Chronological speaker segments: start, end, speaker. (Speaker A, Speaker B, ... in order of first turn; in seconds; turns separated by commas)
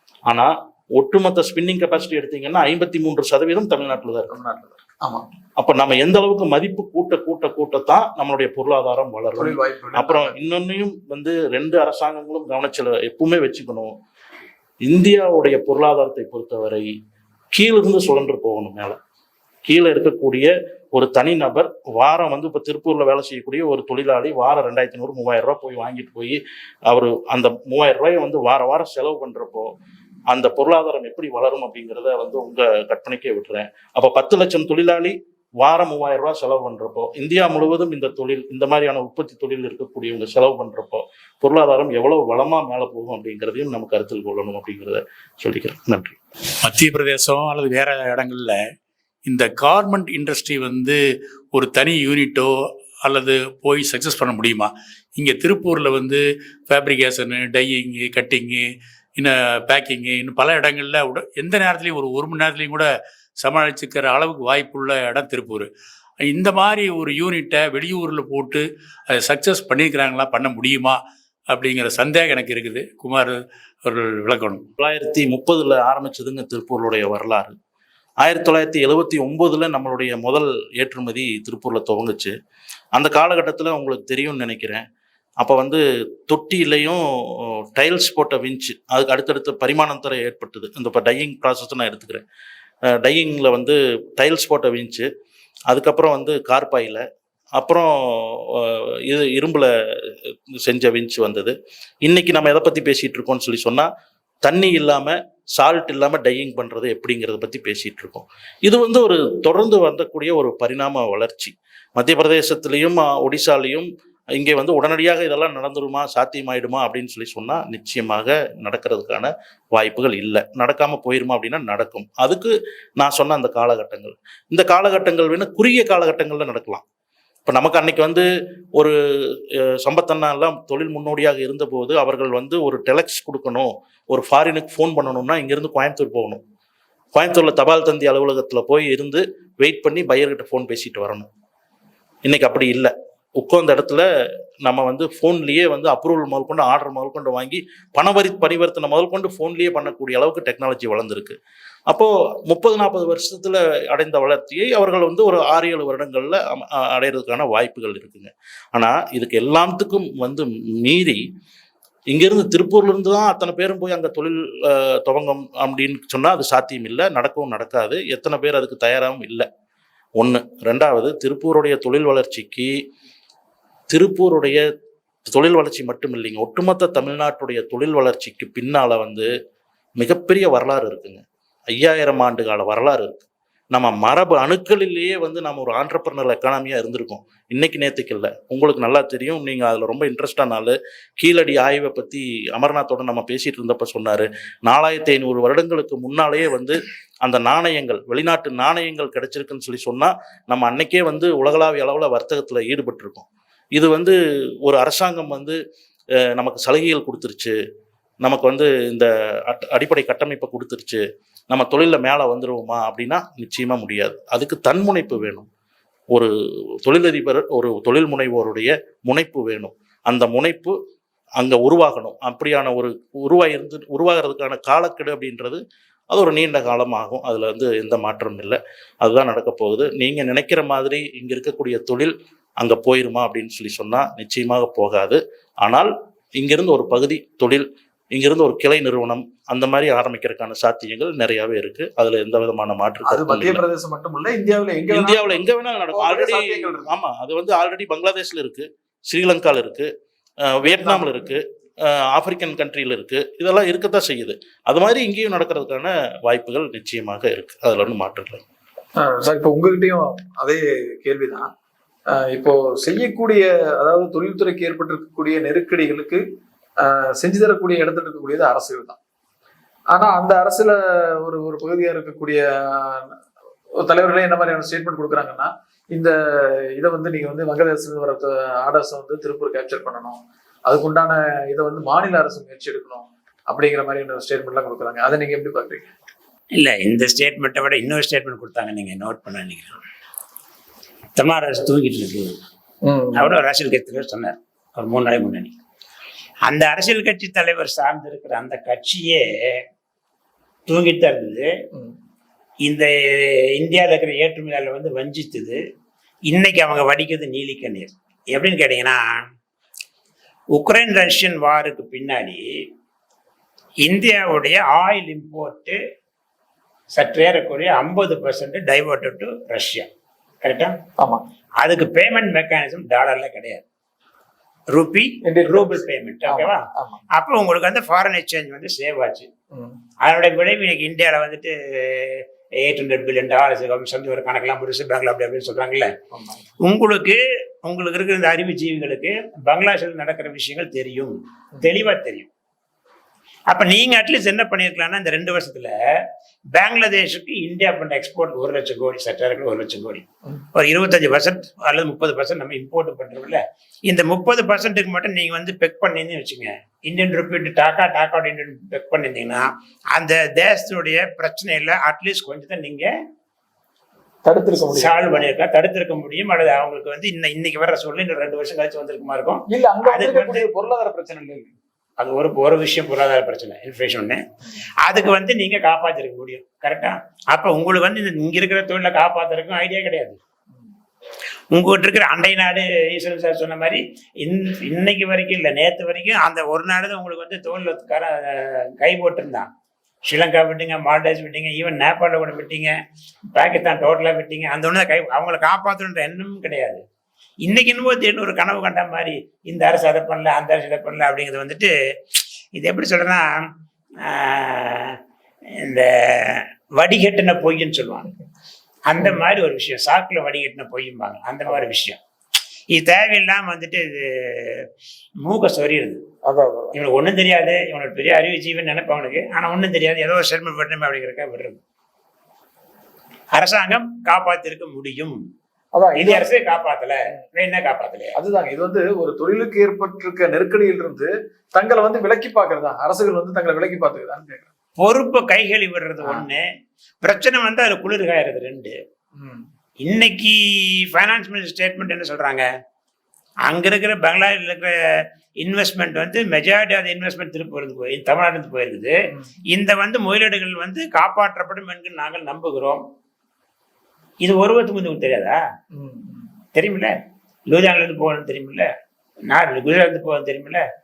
Speaker A: 0.3-4.3, Speaker B: 4.3-5.2, Speaker A: 5.6-13.9, Speaker B: 9.4-10.3, Speaker A: 14.9-16.9, Speaker A: 17.5-19.0, Speaker A: 19.7-29.7, Speaker A: 30.3-46.2, Speaker C: 46.6-48.7, Speaker C: 49.3-65.7, Speaker C: 66.2-71.0, Speaker C: 71.5-74.6, Speaker A: 74.8-77.5, Speaker A: 78.2-82.3, Speaker A: 83.0-84.8, Speaker A: 85.4-92.2, Speaker A: 92.9-95.1, Speaker A: 95.7-97.0, Speaker A: 97.6-103.9, Speaker A: 104.4-126.8, Speaker A: 127.5-128.3, Speaker A: 128.8-136.4, Speaker A: 137.2-141.3, Speaker A: 142.2-144.1, Speaker A: 144.6-151.4, Speaker A: 151.9-161.2, Speaker A: 162.1-169.5, Speaker A: 170.2-172.7, Speaker A: 173.9-174.6, Speaker A: 175.3-179.3, Speaker A: 180.0-181.2, Speaker A: 181.7-205.6, Speaker A: 206.3-207.6, Speaker A: 208.2-215.5, Speaker A: 216.8-220.8, Speaker A: 221.4-243.6, Speaker B: 243.1-245.4, Speaker A: 244.9-249.9, Speaker B: 245.9-246.9, Speaker A: 250.4-258.4, Speaker B: 250.7-251.1, Speaker B: 259.0-261.5, Speaker B: 262.1-266.2, Speaker B: 266.8-269.0, Speaker B: 269.9-273.1, Speaker B: 273.8-285.9, Speaker D: 286.5-289.8, Speaker D: 291.2-292.4, Speaker B: 292.9-293.3, Speaker D: 293.1-295.5, Speaker D: 296.5-299.6, Speaker D: 300.7-301.5, Speaker D: 302.6-305.6, Speaker D: 306.3-309.2, Speaker D: 310.5-312.4, Speaker D: 313.8-315.8, Speaker D: 316.9-319.9, Speaker D: 320.4-320.8, Speaker D: 321.6-323.6, Speaker D: 324.7-329.3, Speaker B: 325.2-327.0, Speaker D: 330.0-335.9, Speaker B: 336.1-336.4, Speaker D: 336.6-342.3, Speaker D: 343.5-346.0, Speaker D: 346.5-362.9, Speaker B: 364.2-365.0, Speaker D: 364.6-370.5, Speaker B: 369.5-371.5, Speaker D: 372.0-374.2, Speaker D: 374.8-380.2, Speaker D: 381.5-389.5, Speaker D: 390.1-392.8, Speaker D: 393.3-396.8, Speaker D: 397.4-401.7, Speaker D: 402.6-403.5, Speaker D: 404.0-405.0, Speaker D: 405.6-408.1, Speaker D: 408.9-412.0, Speaker D: 412.7-414.7, Speaker D: 415.2-416.0, Speaker B: 416.2-416.7, Speaker D: 416.7-421.6, Speaker D: 423.3-425.2, Speaker B: 425.8-426.3, Speaker D: 426.0-428.1, Speaker B: 428.2-434.5, Speaker D: 434.8-436.5, Speaker D: 437.0-438.8, Speaker B: 439.2-439.4, Speaker D: 439.8-442.5, Speaker D: 443.5-449.0, Speaker D: 449.5-452.8, Speaker D: 454.2-455.4, Speaker B: 455.7-456.3, Speaker D: 456.6-456.9, Speaker D: 457.5-458.7, Speaker D: 459.3-460.6